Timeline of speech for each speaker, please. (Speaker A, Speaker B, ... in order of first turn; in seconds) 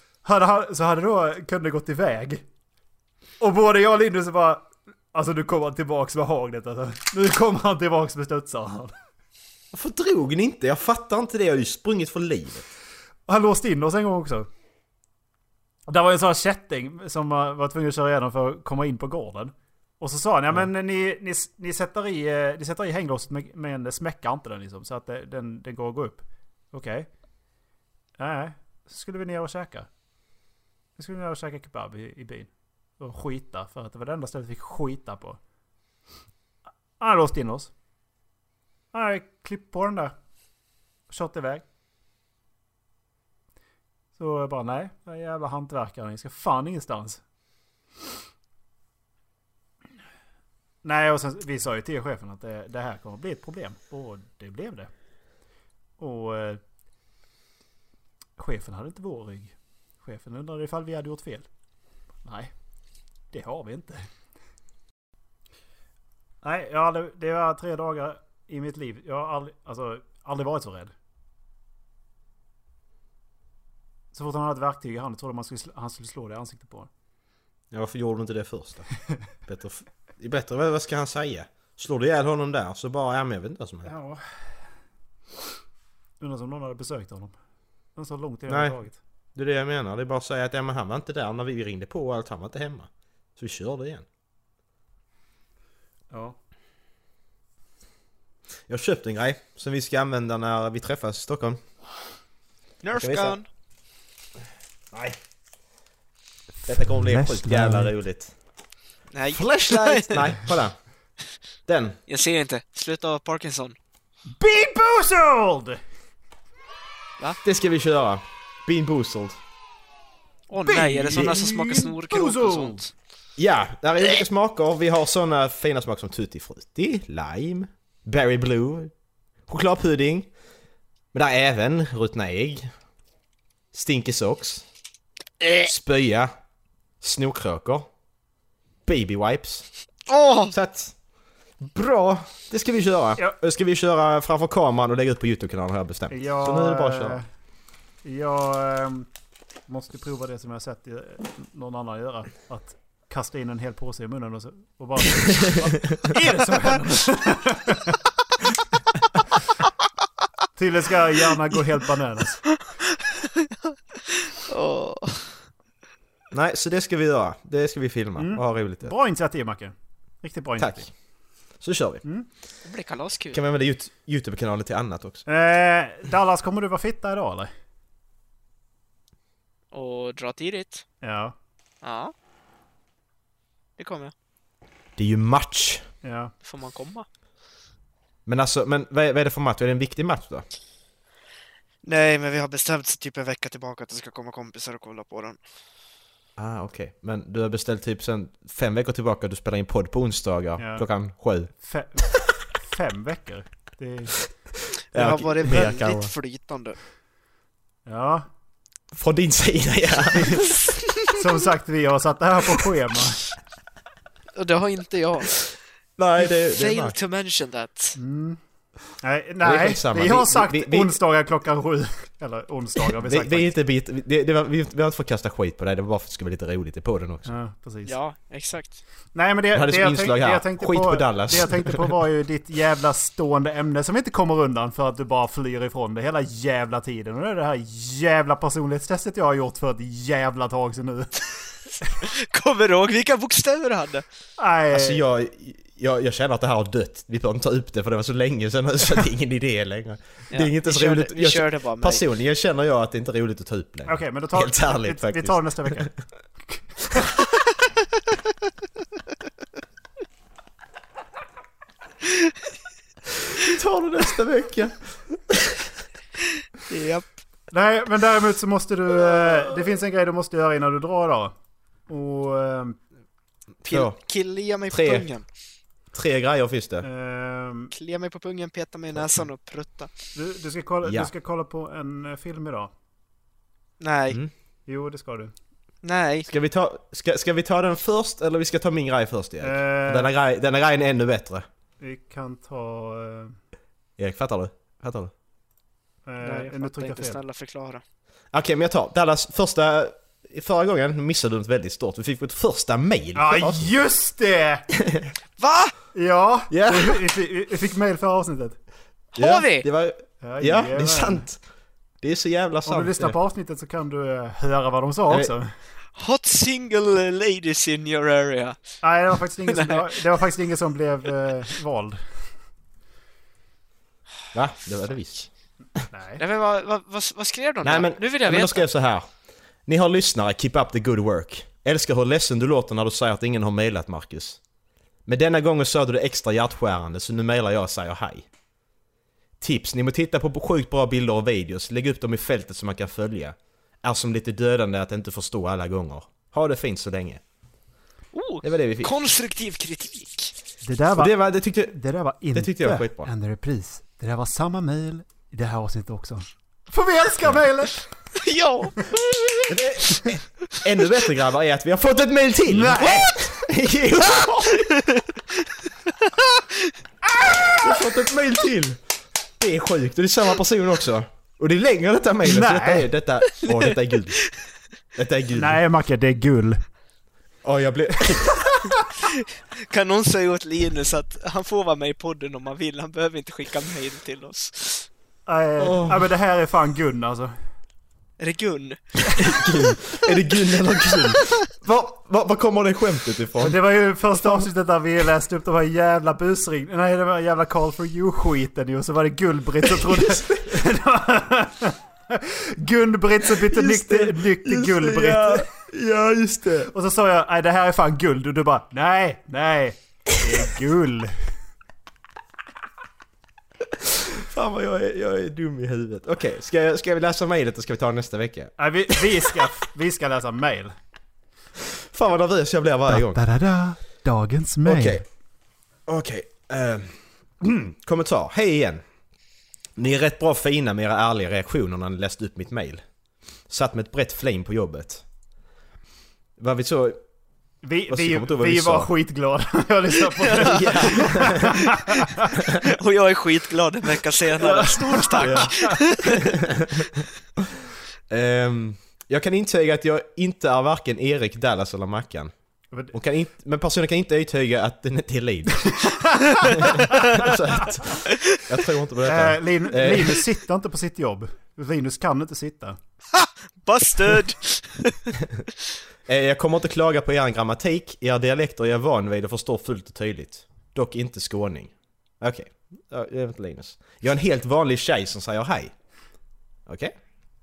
Speaker A: 0.2-2.4, 3.4-8.9, 13.3-14.5, 15.9-27.1, 28.2-29.9, 31.0-35.4, 37.0-37.7, 38.9-40.1, 41.1-41.6, 44.2-47.2, 50.8-54.9, 56.0-56.6, 58.4-61.5, 62.2-62.5, 63.3-64.0, 66.4-70.9, 74.1-76.9, 83.8-84.2, 86.2-87.3, 88.0-89.0, 96.1-96.4, 106.7-107.9, 114.3-115.8, 120.6-122.8, 146.1-147.2, 148.0-149.1, 149.7-158.0, 160.6-162.4, 168.2-170.9, 175.3-177.5, 181.0-181.3, 186.0-186.3, 200.6-200.8, 201.5-204.1, 207.8-208.3, 211.1-213.2, 218.0-218.4, 219.0-223.5, 227.2-227.9, 229.1-241.3, 244.4-245.0, 253.9-255.9, 256.5-257.0, 267.5-271.3, 271.9-272.8, 276.8-277.7, 280.1-282.7, 284.7-285.3, 289.4-290.1, 291.8-293.4, 296.1-297.2, 303.1-304.7, 305.9-308.6, 310.2-311.2, 312.6-315.5, 318.8-322.0, 325.9-326.2, 350.6-357.8, 362.5-363.2, 372.2-372.9, 375.3-376.6, 385.3-387.3, 393.4-405.5, 406.7-411.2, 418.6-420.7, 422.9-425.0, 437.6-442.3, 444.4-445.8, 455.7-457.3, 459.1-462.8
Speaker B: 9.7-12.6, 77.7-78.9, 79.5-83.9, 88.5-88.8, 89.3-94.0, 98.7-101.6, 102.9-103.4, 104.9-105.2, 106.7-108.3, 109.3-110.8, 111.7-112.0, 117.4-119.4, 123.4-128.9, 129.5-130.3, 131.1-132.7, 133.7-134.6, 135.6-136.3, 137.0-137.9, 138.8-139.7, 140.5-140.9, 141.6-147.2, 166.3-168.9, 170.6-170.9, 171.6-172.0, 173.3-175.2, 185.0-185.8, 188.2-190.4, 196.4-201.5, 204.7-206.1, 208.9-210.5, 216.0-216.9, 219.4-221.0, 223.0-227.3, 229.5-231.9, 244.7-255.9, 263.3-265.7, 273.6-274.0, 274.7-275.1, 275.9-276.9, 280.8-281.1, 286.2-291.5, 294.0-295.1, 298.3-303.7, 304.8-305.1, 306.5-307.0, 309.1-311.4, 312.0-313.2, 324.3-325.3, 327.6-329.1, 329.6-334.4, 335.1-338.3, 339.4-347.2, 348.4-348.9, 350.9-351.8, 352.3-353.1, 359.5-364.7, 367.5-368.8, 369.4-374.2, 374.9-375.6, 377.4-378.7, 385.6-386.1, 389.2-393.6, 399.6-400.6, 403.3-406.7, 413.8-419.5, 421.6-423.2, 424.6-425.0, 425.9-428.8, 429.8-432.8, 433.5-435.0, 436.4-437.0, 437.9-438.9, 440.4-441.6, 445.2-447.0, 448.1-452.3, 452.9-460.2, 466.1-475.7, 476.7-476.9
Speaker C: 102.8-103.5, 109.1-110.3, 112.1-113.8, 120.5-122.9, 140.1-140.5, 162.9-165.4, 172.6-173.4, 179.7-180.8, 181.8-182.1, 183.8-184.1, 186.4-187.1, 191.8-195.4, 204.9-206.8, 210.5-210.8, 214.3-215.5, 216.2-218.0, 227.8-228.8, 242.0-244.0, 250.3-252.0, 266.7-267.1, 273.7-275.2, 277.7-279.9, 283.8-284.2, 285.8-286.3, 296.2-297.8, 305.4-305.7, 309.2-309.7, 315.9-318.6, 319.4-320.0, 326.2-328.6, 348.1-350.3, 358.2-359.6, 364.5-365.5, 366.1-366.7, 373.4-374.3, 379.6-384.9, 388.2-389.4, 440.2-441.1, 442.6-446.3, 463.1-465.1